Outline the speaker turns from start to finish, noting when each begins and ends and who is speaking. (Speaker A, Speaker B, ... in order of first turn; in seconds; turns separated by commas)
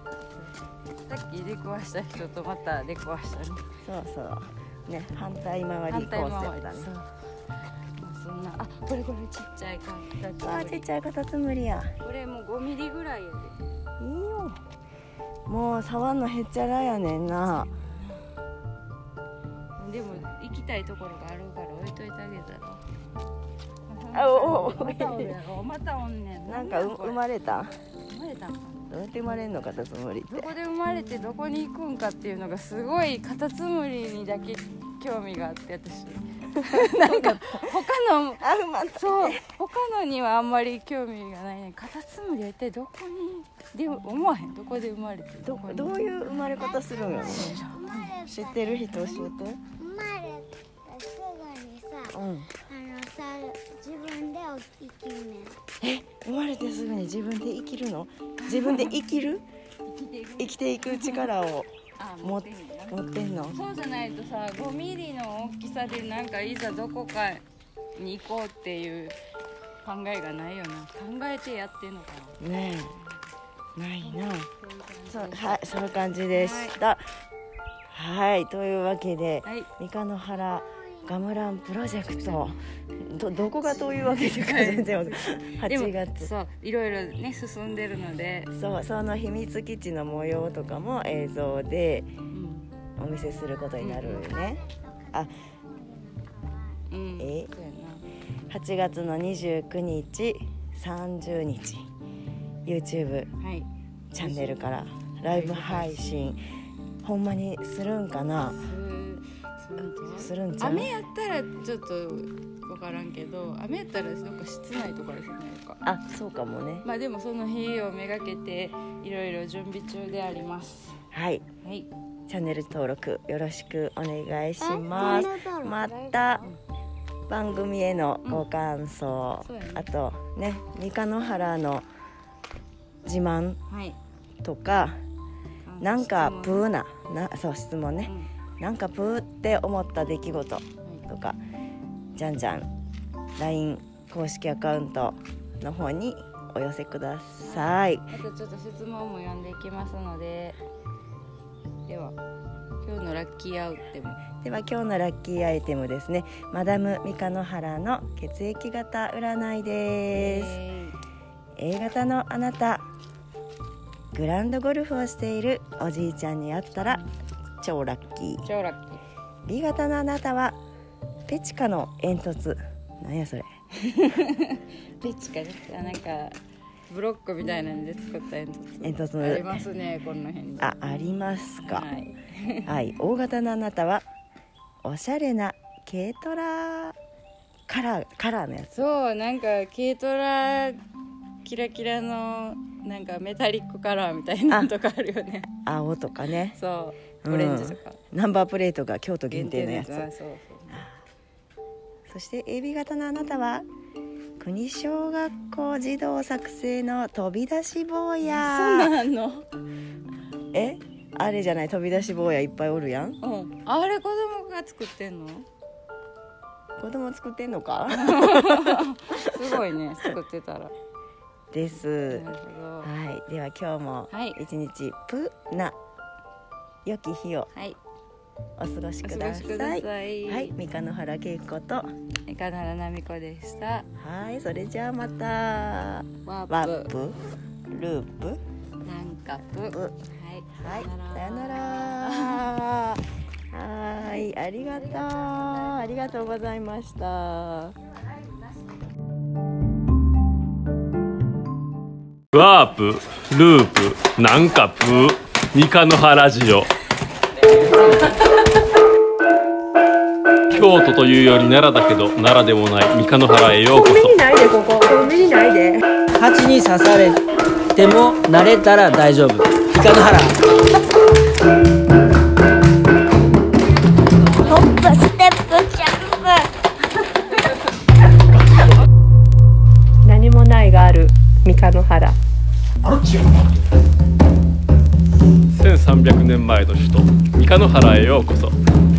Speaker A: 1.1-3.6, Speaker B: 3.8-6.9, Speaker A: 5.9-7.1, Speaker A: 8.0-10.8, Speaker B: 10.4-11.9, Speaker A: 12.0-13.6, Speaker B: 14.0-14.6, Speaker B: 15.4-17.7, Speaker A: 17.6-18.2, Speaker A: 19.8-22.8, Speaker A: 23.9-27.2, Speaker B: 24.1-25.3, Speaker B: 26.4-27.7, Speaker A: 28.1-28.9, Speaker B: 28.9-30.5, Speaker A: 30.3-38.4, Speaker B: 36.7-37.6, Speaker B: 38.4-39.5, Speaker A: 39.0-46.0, Speaker B: 45.4-47.6, Speaker C: 46.4-55.6, Speaker A: 46.6-48.1, Speaker B: 48.2-49.6, Speaker B: 52.1-52.5, Speaker B: 55.8-59.5, Speaker A: 58.4-58.9, Speaker A: 59.9-61.3, Speaker B: 60.4-63.6, Speaker A: 62.0-67.4, Speaker A: 67.9-69.2, Speaker A: 69.8-72.4, Speaker B: 72.4-73.0, Speaker B: 73.8-74.5, Speaker A: 74.0-75.6, Speaker B: 75.1-77.1, Speaker A: 76.3-76.8, Speaker B: 77.9-86.3, Speaker A: 79.4-79.7, Speaker A: 83.8-88.5, Speaker B: 88.5-92.1, Speaker A: 92.3-92.7, Speaker B: 93.0-95.3, Speaker A: 93.8-94.3, Speaker C: 94.3-96.8, Speaker A: 96.9-98.0, Speaker B: 97.2-97.5, Speaker B: 98.5-101.8, Speaker B: 102.7-103.3, Speaker A: 103.4-104.7, Speaker B: 104.1-106.4, Speaker A: 105.2-106.3, Speaker B: 107.0-108.6, Speaker A: 108.5-115.8, Speaker B: 110.1-110.9, Speaker B: 115.8-116.8, Speaker A: 116.8-121.0, Speaker B: 121.1-121.4, Speaker A: 121.6-121.9, Speaker B: 122.3-126.5, Speaker C: 124.6-125.8, Speaker A: 124.9-125.3, Speaker A: 125.8-126.6, Speaker B: 127.3-131.9, Speaker A: 129.4-129.9, Speaker B: 133.0-133.6, Speaker A: 133.7-134.0, Speaker B: 134.4-135.0, Speaker A: 135.6-136.6, Speaker B: 135.8-141.4, Speaker B: 142.2-142.7, Speaker B: 143.4-148.1, Speaker A: 147.4-150.6, Speaker A: 151.8-152.2, Speaker A: 152.8-154.2, Speaker B: 154.4-160.6, Speaker A: 160.1-161.0, Speaker B: 161.6-162.8, Speaker B: 164.1-167.0, Speaker B: 167.6-168.4, Speaker A: 168.4-169.0, Speaker B: 169.4-170.6, Speaker B: 171.3-173.5, Speaker A: 173.8-176.4, Speaker A: 176.9-180.8, Speaker B: 178.8-179.6, Speaker B: 180.6-181.9, Speaker A: 181.6-182.7, Speaker B: 182.7-184.0, Speaker B: 184.8-187.0, Speaker B: 187.7-188.7, Speaker A: 188.7-190.8, Speaker A: 191.4-195.5, Speaker B: 195.5-196.6, Speaker A: 196.5-198.0, Speaker B: 197.2-200.1, Speaker A: 199.3-200.8, Speaker B: 200.7-201.0, Speaker B: 202.1-203.7, Speaker B: 204.4-208.9, Speaker A: 208.3-209.4, Speaker B: 210.5-213.2, Speaker A: 213.2-215.5, Speaker B: 216.8-218.8, Speaker A: 217.9-220.7, Speaker B: 221.5-222.2, Speaker A: 222.1-222.9, Speaker B: 222.8-225.8, Speaker A: 224.1-224.4, Speaker B: 226.8-227.5, Speaker A: 227.5-227.8, Speaker B: 228.6-231.9, Speaker A: 229.0-230.5, Speaker A: 232.2-233.9, Speaker B: 234.0-237.2, Speaker A: 236.2-236.9, Speaker B: 237.7-238.4, Speaker A: 238.8-242.5, Speaker B: 240.6-247.8, Speaker A: 244.8-246.2, Speaker D: 252.3-256.7, Speaker D: 260.5-264.3, Speaker E: 264.0-265.8, Speaker F: 266.1-267.2, Speaker F: 267.7-270.4, Speaker C: 274.4-276.5, Speaker E: 280.0-282.2, Speaker D: 285.5-288.6